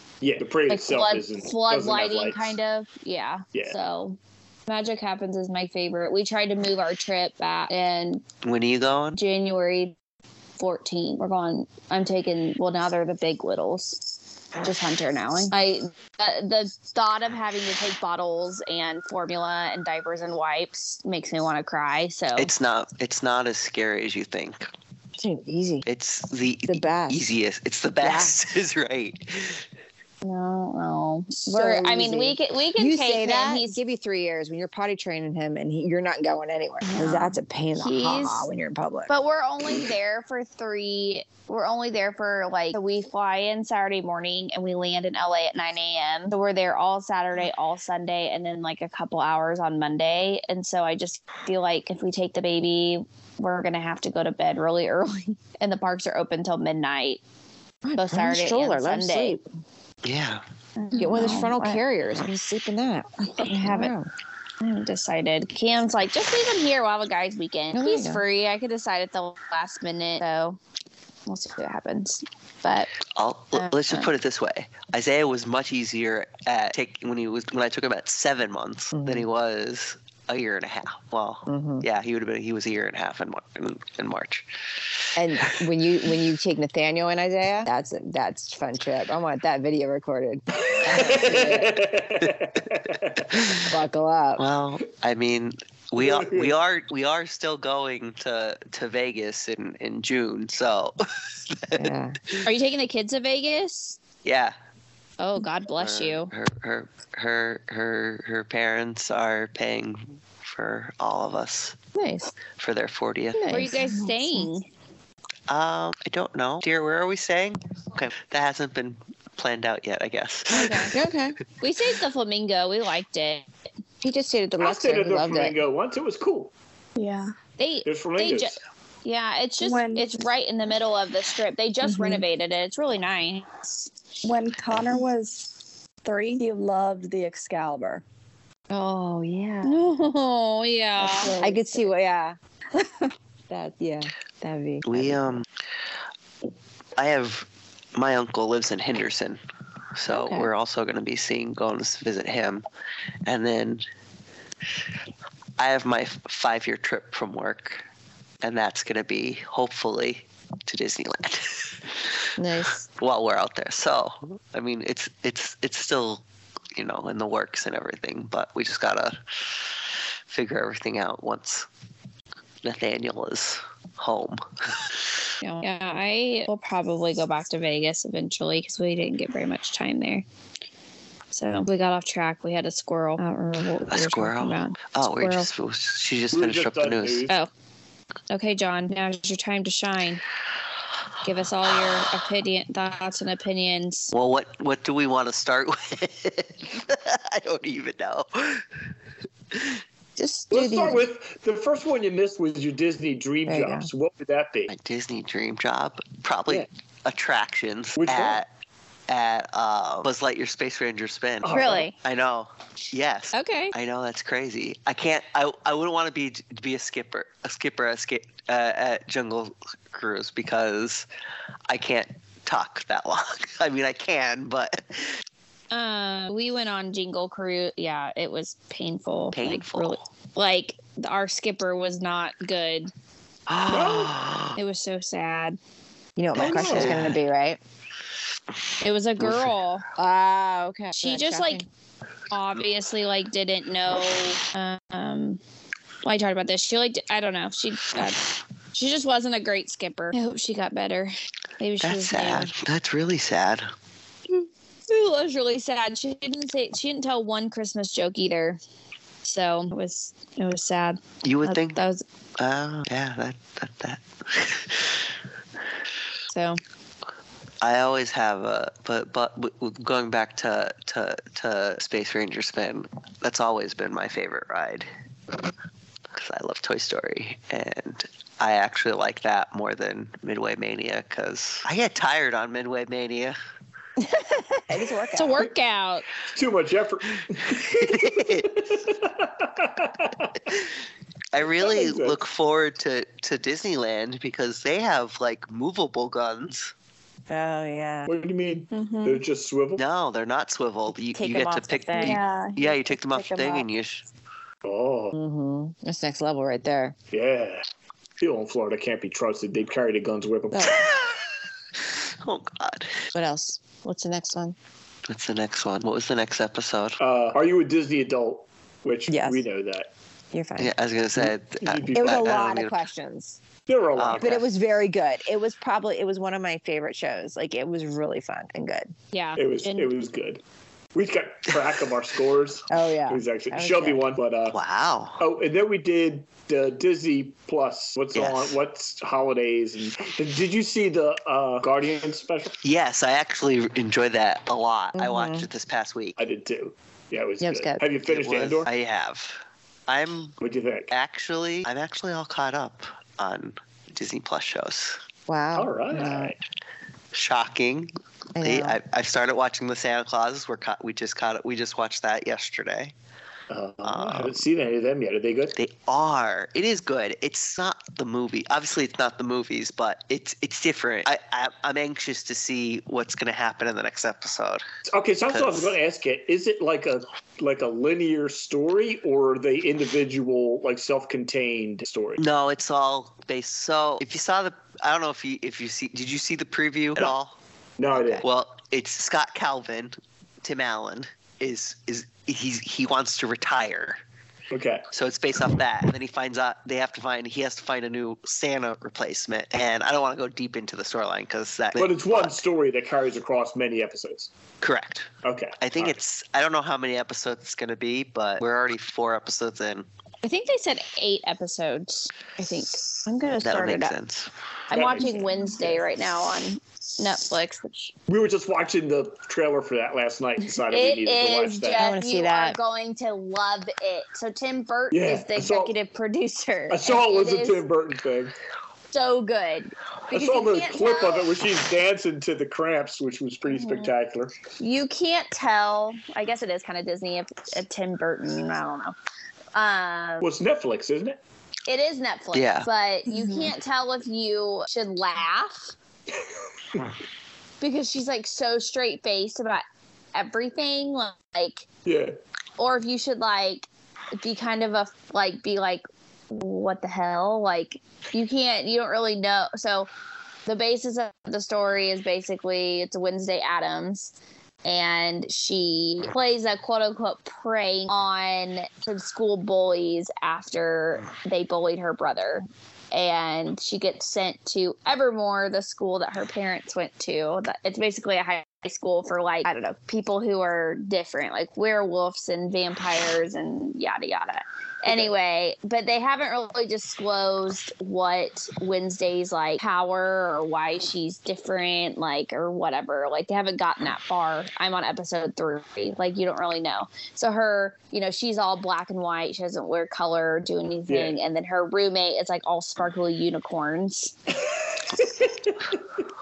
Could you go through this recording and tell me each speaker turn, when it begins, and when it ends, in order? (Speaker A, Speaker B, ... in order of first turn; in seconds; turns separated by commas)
Speaker A: 0.2-2.6, Speaker B: 0.7-8.2, Speaker C: 8.4-9.2, Speaker B: 9.1-9.9, Speaker B: 10.6-22.5, Speaker C: 22.4-24.7, Speaker D: 25.2-25.9, Speaker C: 25.9-29.6, Speaker D: 26.7-27.3, Speaker D: 28.0-28.4, Speaker B: 30.2-33.8, Speaker D: 31.4-39.1, Speaker B: 36.8-38.5, Speaker B: 39.1-57.2, Speaker D: 57.8-59.4, Speaker B: 58.0-59.4, Speaker C: 60.0-60.4, Speaker B: 60.8-61.8, Speaker D: 60.9-64.1, Speaker B: 63.4-63.9, Speaker B: 64.6-70.6, Speaker D: 67.7-68.2, Speaker B: 71.3-72.9, Speaker C: 73.1-84.5, Speaker B: 73.5-74.1, Speaker D: 78.9-79.2, Speaker D: 81.5-81.8, Speaker D: 85.1-91.8, Speaker A: 90.6-93.4, Speaker D: 93.7-94.4, Speaker C: 94.4-102.4, Speaker A: 96.0-96.5, Speaker D: 101.8-102.2, Speaker B: 102.4-104.0, Speaker C: 104.2-104.5, Speaker B: 105.2-106.3, Speaker C: 105.8-111.8, Speaker B: 111.9-112.3, Speaker C: 112.6-113.5, Speaker D: 113.3-114.4, Speaker B: 113.5-114.7, Speaker C: 115.5-121.0, Speaker B: 120.5-120.9, Speaker D: 120.9-121.4, Speaker B: 121.6-123.5, Speaker D: 124.0-125.6, Speaker A: 124.6-126.5, Speaker E: 127.0-127.3, Speaker B: 127.6-133.9, Speaker A: 127.8-128.6, Speaker E: 129.6-130.2, Speaker E: 131.8-132.2, Speaker E: 134.2-138.0, Speaker D: 138.7-139.8, Speaker B: 139.6-141.3, Speaker E: 141.1-141.6, Speaker D: 141.3-142.4, Speaker D: 143.5-145.4, Speaker C: 144.8-145.4, Speaker C: 147.0-149.4, Speaker C: 149.9-152.6, Speaker D: 150.1-150.5, Speaker C: 153.2-153.8, Speaker C: 155.6-157.8, Speaker C: 158.4-162.2, Speaker D: 162.4-162.8, Speaker C: 162.9-166.2, Speaker C: 166.7-169.7, Speaker C: 170.3-171.7, Speaker C: 172.6-175.1, Speaker B: 175.4-180.2, Speaker B: 181.3-185.5, Speaker C: 183.9-187.3, Speaker A: 186.3-187.3, Speaker B: 188.3-190.2, Speaker B: 191.2-194.1, Speaker C: 194.1-198.7, Speaker C: 199.5-199.8, Speaker D: 200.2-201.1, Speaker A: 200.5-204.7, Speaker D: 203.4-203.9, Speaker C: 204.7-208.5, Speaker A: 208.0-208.4, Speaker C: 209.1-221.1, Speaker A: 211.4-211.9, Speaker B: 211.5-211.9, Speaker B: 213.3-213.7, Speaker C: 221.7-225.1, Speaker B: 225.7-232.9, Speaker C: 229.3-230.0, Speaker C: 233.5-234.6, Speaker A: 233.7-234.1, Speaker B: 234.6-235.6, Speaker D: 236.2-237.6, Speaker A: 236.3-237.0, Speaker C: 236.3-237.2, Speaker B: 238.8-239.8, Speaker C: 239.2-239.5, Speaker D: 239.9-241.7, Speaker B: 240.9-241.6, Speaker B: 242.3-245.4, Speaker B: 246.0-252.5, Speaker C: 251.8-253.7, Speaker B: 254.9-258.6, Speaker B: 259.2-262.0, Speaker C: 261.2-261.8, Speaker C: 262.4-265.0, Speaker B: 266.3-266.6, Speaker C: 267.6-274.9, Speaker C: 276.1-283.4, Speaker D: 284.0-285.5, Speaker B: 285.1-286.1, Speaker A: 286.3-290.5, Speaker C: 287.6-288.6, Speaker C: 291.3-296.7, Speaker A: 291.4-292.2, Speaker D: 297.3-298.1, Speaker A: 298.1-299.8, Speaker B: 298.8-299.1, Speaker C: 299.8-304.1, Speaker D: 301.1-302.2, Speaker E: 302.0-303.6, Speaker A: 304.6-305.1, Speaker D: 305.1-306.9, Speaker A: 307.1-307.6, Speaker A: 308.2-310.8, Speaker D: 310.5-310.8, Speaker C: 310.7-311.3, Speaker C: 311.9-313.1, Speaker D: 313.1-314.6, Speaker C: 315.1-317.0, Speaker A: 317.0-319.9, Speaker D: 319.1-319.4, Speaker D: 320.3-320.7, Speaker C: 320.6-322.8, Speaker A: 321.2-322.4, Speaker D: 321.9-323.4, Speaker A: 323.7-324.4, Speaker C: 323.9-324.4, Speaker D: 324.2-328.9, Speaker B: 329.1-329.9, Speaker A: 329.4-330.4, Speaker A: 330.9-334.6, Speaker D: 332.7-334.1, Speaker C: 334.5-335.2, Speaker A: 335.2-342.6, Speaker C: 338.1-338.6, Speaker C: 342.6-346.2, Speaker D: 344.9-345.5, Speaker A: 346.2-348.7, Speaker D: 347.4-347.8, Speaker C: 348.0-350.4, Speaker A: 350.4-350.9, Speaker C: 350.9-355.0, Speaker D: 355.3-356.3, Speaker A: 355.5-356.4, Speaker C: 357.1-362.9, Speaker D: 358.4-358.8, Speaker A: 363.5-365.6, Speaker C: 363.8-364.4, Speaker C: 365.6-374.6, Speaker A: 374.9-382.2, Speaker C: 375.3-375.7, Speaker C: 382.2-387.3, Speaker A: 387.8-388.2, Speaker C: 387.9-394.0, Speaker A: 394.5-394.9, Speaker C: 394.9-402.4, Speaker A: 401.8-404.3, Speaker C: 404.6-409.9, Speaker A: 405.2-405.9, Speaker B: 410.2-412.8, Speaker D: 413.0-413.9, Speaker C: 413.4-414.3, Speaker B: 414.7-417.9, Speaker A: 414.7-415.8, Speaker A: 418.1-421.9, Speaker B: 420.7-427.6, Speaker D: 421.8-422.6, Speaker A: 424.9-425.7, Speaker A: 426.7-428.3, Speaker B: 428.9-431.3, Speaker A: 430.1-434.3, Speaker B: 433.4-433.9, Speaker B: 434.6-438.9, Speaker B: 439.5-440.3, Speaker A: 440.2-441.2, Speaker B: 441.7-445.7, Speaker C: 442.3-442.7, Speaker B: 447.6-451.6, Speaker A: 451.9-452.1, Speaker B: 452.6-459.9, Speaker B: 460.4-504.1, Speaker A: 500.9-501.1, Speaker A: 504.5-505.5